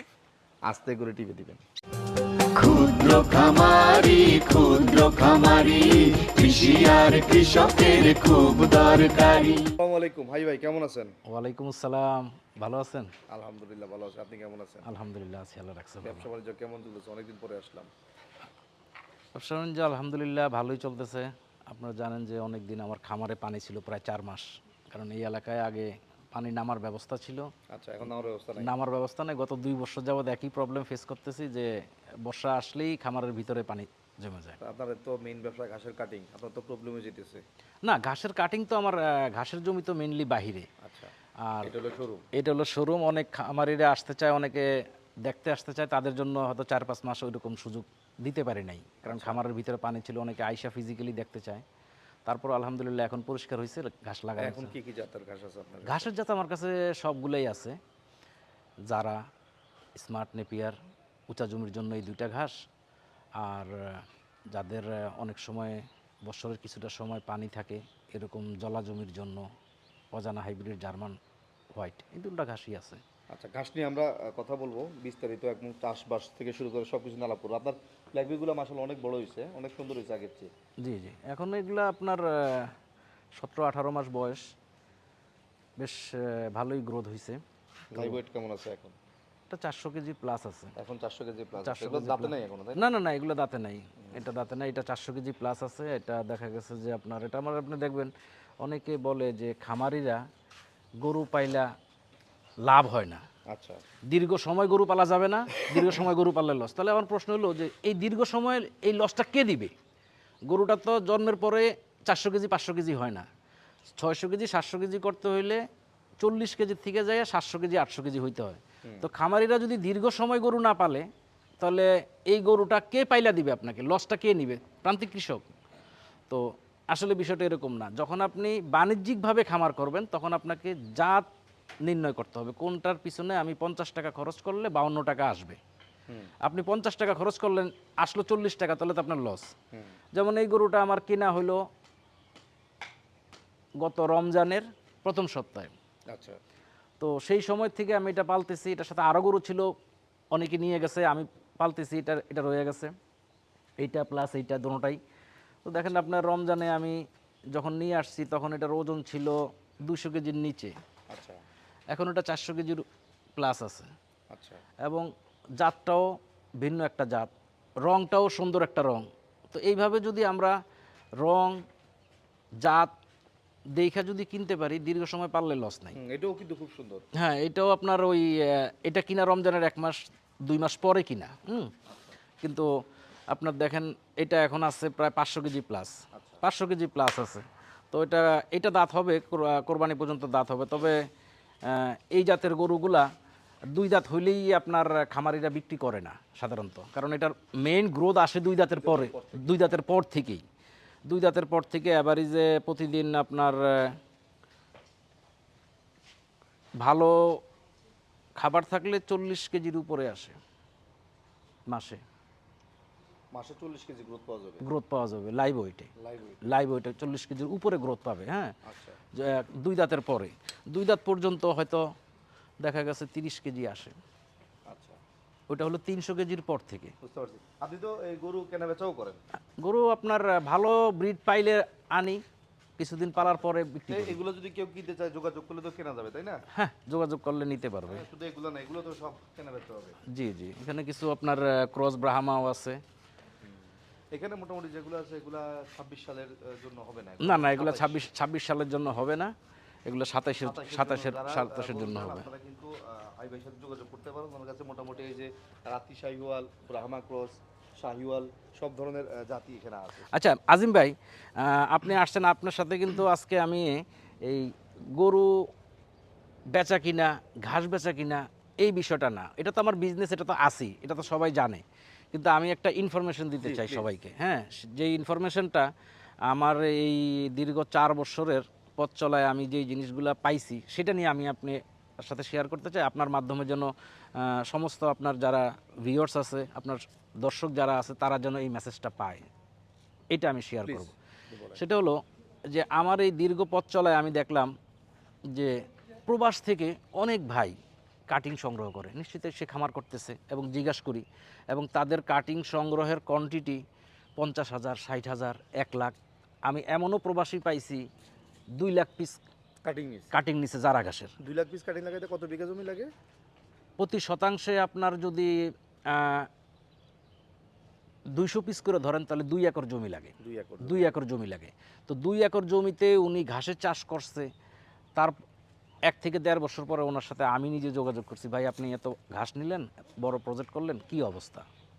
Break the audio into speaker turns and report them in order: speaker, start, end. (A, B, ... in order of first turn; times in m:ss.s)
0:00.7-0:01.6 A
0:02.5-0:09.6 B
0:09.8-0:11.2 A
0:11.3-0:13.1 C
0:13.3-0:14.9 A
0:14.8-0:16.2 C
0:16.0-0:17.9 A
0:19.3-0:27.5 C
0:27.7-0:28.7 A
0:28.6-0:31.7 C
0:32.2-0:34.6 C
0:34.6-0:37.4 A
0:37.8-0:40.7 C
0:40.8-0:42.2 A
0:41.4-0:41.7 C
0:42.3-0:44.7 C
0:45.2-0:51.6 C
0:49.0-0:49.4 A
0:52.2-0:54.7 C
0:54.4-0:56.1 A
0:55.8-0:57.8 C
0:58.9-0:59.2 C
1:00.0-1:00.8 C
1:01.3-1:02.5 C
1:03.4-1:09.4 C
1:10.1-1:11.2 C
1:11.8-1:13.0 C
1:13.3-1:20.5 A
1:20.8-1:22.7 C
1:23.4-1:24.4 C
1:25.8-1:27.4 C
1:27.9-1:28.9 A
1:29.5-1:30.7 C
1:30.8-1:32.8 A
1:31.6-1:40.2 C
1:41.0-1:41.7 C
1:42.6-1:43.2 C
1:43.5-1:43.8 A
1:44.1-1:49.7 C
1:50.5-1:53.2 C
1:53.9-1:55.6 C
1:56.2-2:01.0 C
2:01.6-2:05.5 C
2:06.3-2:11.2 C
2:11.8-2:15.6 C
2:16.4-2:19.5 C
2:20.1-2:21.6 C
2:23.8-2:25.7 C
2:26.1-2:26.4 A
2:27.0-2:29.7 C
2:30.3-2:32.9 C
2:33.8-2:35.0 C
2:35.6-2:40.7 C
2:41.1-2:41.4 A
2:41.9-2:42.8 C
2:43.4-2:43.9 C
2:44.3-2:44.6 A
2:44.8-2:46.0 C
2:46.6-2:47.3 C
2:47.8-2:50.6 C
2:51.2-2:51.6 C
2:52.6-2:52.9 C
2:53.8-2:56.0 C
2:55.9-2:57.0 A
2:57.1-3:01.7 C
3:02.4-3:02.7 C
3:03.3-3:11.0 C
3:06.1-3:06.4 A
3:11.6-3:13.1 C
3:13.7-3:20.4 C
3:18.7-3:19.4 A
3:21.0-3:24.0 C
3:26.8-3:27.4 C
3:28.4-3:30.4 C
3:31.7-3:32.0 C
3:33.3-3:34.6 A
3:34.6-3:35.9 C
3:36.0-3:36.4 A
3:36.4-3:38.6 C
3:38.6-3:39.0 A
3:39.1-3:41.8 C
3:42.6-3:44.0 C
3:44.7-3:45.0 A
3:45.5-3:46.9 C
3:47.0-3:49.2 A
3:49.6-3:52.2 C
3:52.8-3:54.2 C
3:53.9-3:56.4 A
3:56.5-3:58.0 C
3:57.9-4:00.0 A
4:00.1-4:02.8 C
4:04.1-4:08.0 A
4:07.2-4:09.3 C
4:09.8-4:12.3 C
4:10.4-4:20.1 A
4:20.1-4:25.3 C
4:26.5-4:35.6 C
4:33.4-4:33.8 A
4:36.3-4:49.2 C
4:50.1-4:50.9 C
4:50.7-4:51.6 A
4:51.6-4:52.0 C
4:52.5-4:54.5 C
4:55.3-4:57.6 C
4:58.1-5:03.6 C
5:04.2-5:05.9 C
5:06.4-5:07.8 C
5:08.6-5:09.2 C
5:09.6-5:10.1 A
5:10.1-5:11.1 C
5:11.2-5:12.9 A
5:13.8-5:16.3 C
5:18.1-5:24.3 C
5:20.2-5:20.9 A
5:25.9-5:31.4 C